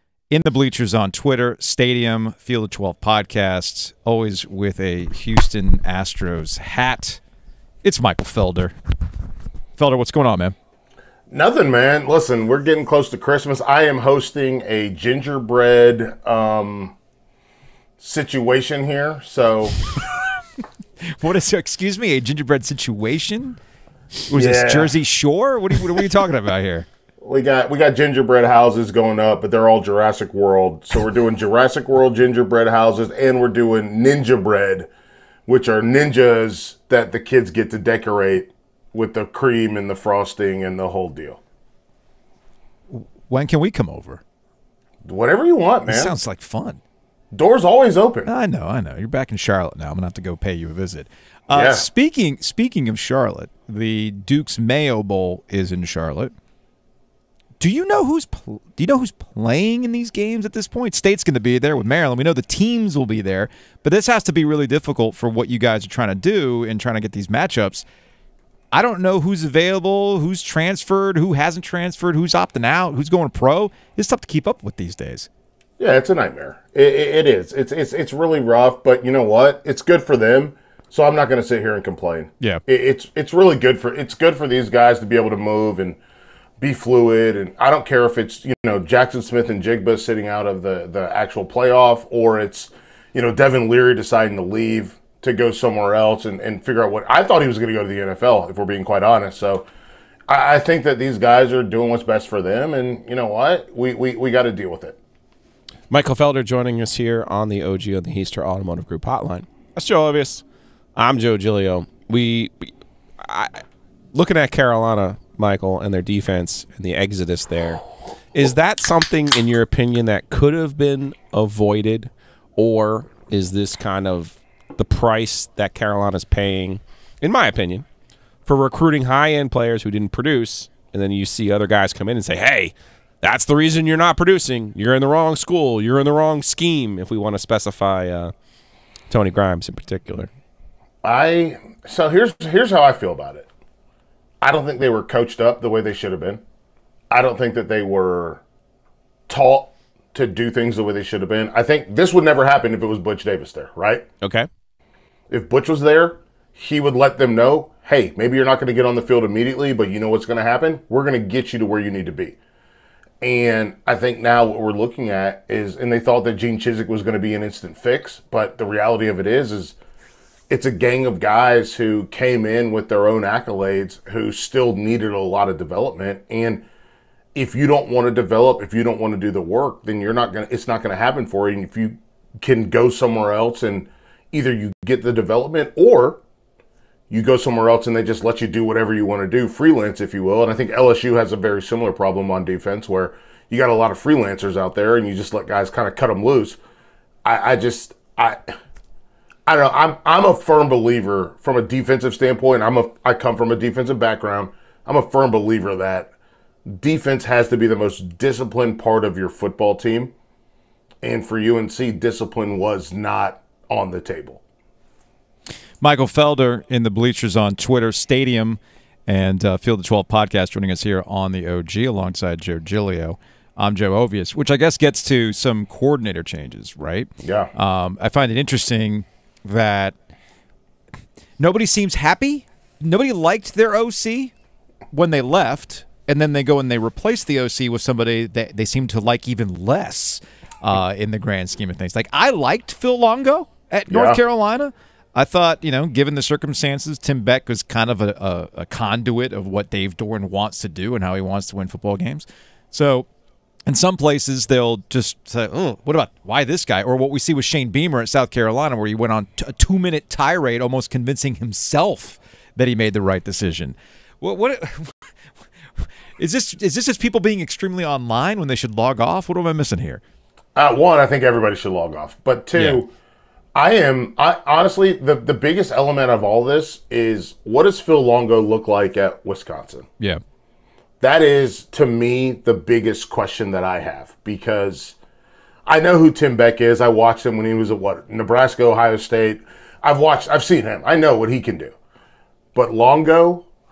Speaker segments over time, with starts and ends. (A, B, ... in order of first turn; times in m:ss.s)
0:00.3-0:07.2 A
0:07.8-0:08.7 A
0:09.8-0:10.5 A
0:11.3-0:16.9 B
0:18.0-0:19.8 B
0:21.2-0:23.6 A
0:24.3-0:26.9 A
0:24.3-0:25.0 B
0:27.2-0:34.9 B
0:35.5-0:41.4 B
0:42.9-0:44.2 A
0:45.0-0:46.1 B
0:45.9-0:46.8 A
0:47.3-0:48.3 B
0:48.2-0:56.3 A
0:51.5-0:51.9 B
0:57.6-1:07.8 A
1:08.7-1:15.3 A
1:15.8-1:26.0 B
1:26.6-1:39.7 B
1:40.3-1:45.0 B
1:45.9-1:50.4 C
1:51.0-1:52.7 C
1:53.2-1:53.6 C
1:54.1-2:07.8 C
2:08.4-2:18.3 C
2:19.1-2:20.3 C
2:21.0-2:23.5 B
2:24.4-2:26.4 B
2:27.1-2:28.4 B
2:29.3-2:34.1 B
2:34.2-2:34.5 C
2:35.3-2:42.4 B
2:43.2-2:49.8 B
2:50.5-2:56.6 B
2:57.3-3:06.2 B
3:07.1-3:16.6 B
3:17.2-3:18.5 B
3:19.5-3:26.1 B
3:26.7-3:30.1 B
3:31.0-3:34.4 B
3:35.8-3:49.9 A
3:47.2-3:47.5 B
3:51.4-3:54.3 A
3:54.9-4:13.1 A
4:03.9-4:04.2 B
4:13.6-4:25.1 A
4:25.8-4:30.0 A
4:30.5-4:32.9 B
4:32.5-4:32.8 A
4:33.5-4:39.8 B
4:41.0-4:45.0 B
4:45.6-4:51.7 B
4:52.5-4:53.5 B